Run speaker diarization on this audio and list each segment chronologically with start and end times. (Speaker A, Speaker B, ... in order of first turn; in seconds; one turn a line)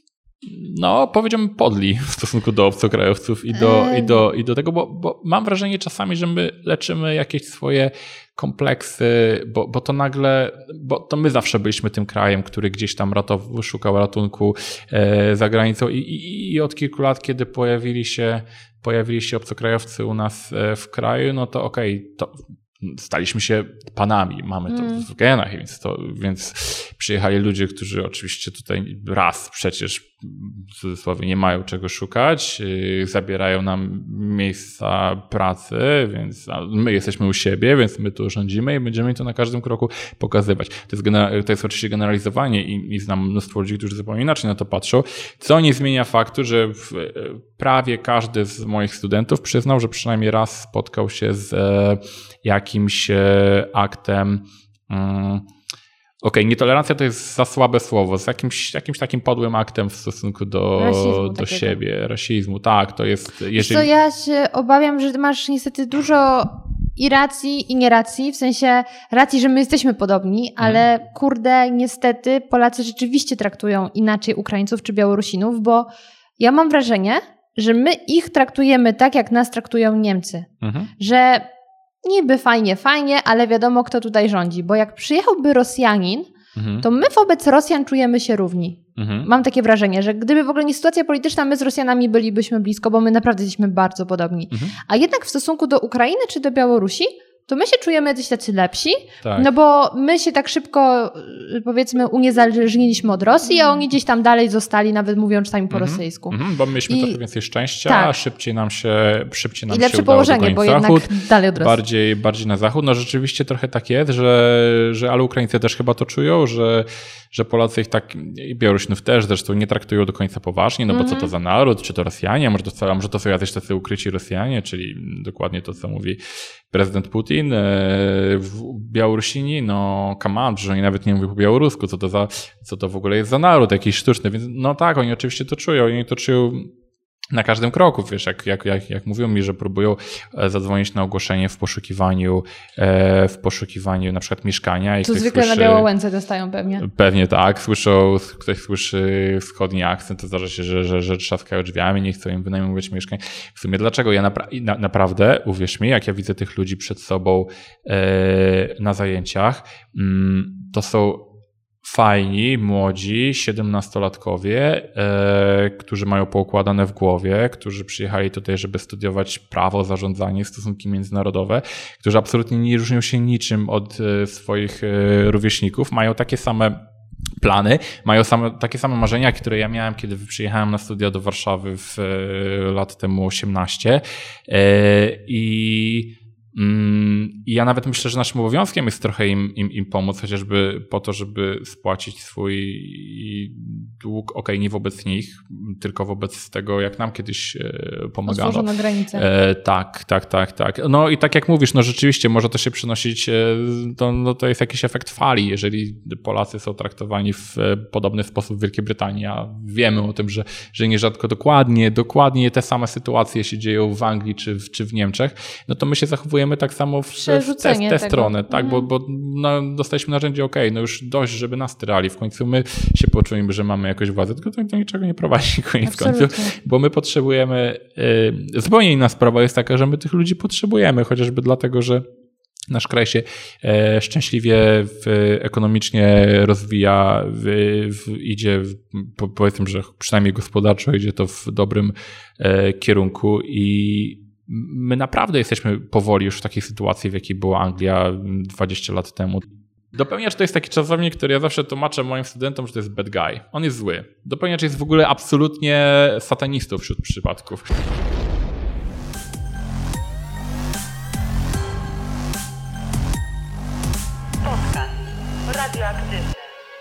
Speaker A: 0.4-55.5
Speaker B: 3.5-4.2
Speaker B: 24.7-25.1
Speaker A: 56.2-63.9
Speaker B: 60.8-61.8
Speaker B: 63.5-81.5
Speaker A: 70.6-70.8
Speaker A: 80.6-80.9
Speaker B: 82.0-86.3
Speaker A: 86.5-86.9
Speaker B: 86.8-106.4
Speaker A: 89.0-89.3
Speaker A: 94.5-94.8
Speaker A: 99.2-99.5
Speaker A: 105.7-126.2
Speaker B: 106.9-107.2
Speaker B: 107.9-108.2
Speaker B: 109.7-111.8
Speaker B: 120.9-121.3
Speaker A: 126.7-136.7
Speaker A: 137.3-145.9
Speaker B: 145.0-146.9
Speaker A: 146.8-161.3
Speaker A: 161.8-176.8
Speaker A: 177.4-232.0
Speaker B: 198.3-199.3
Speaker B: 217.2-218.9
Speaker B: 225.8-226.6
Speaker A: 232.7-257.8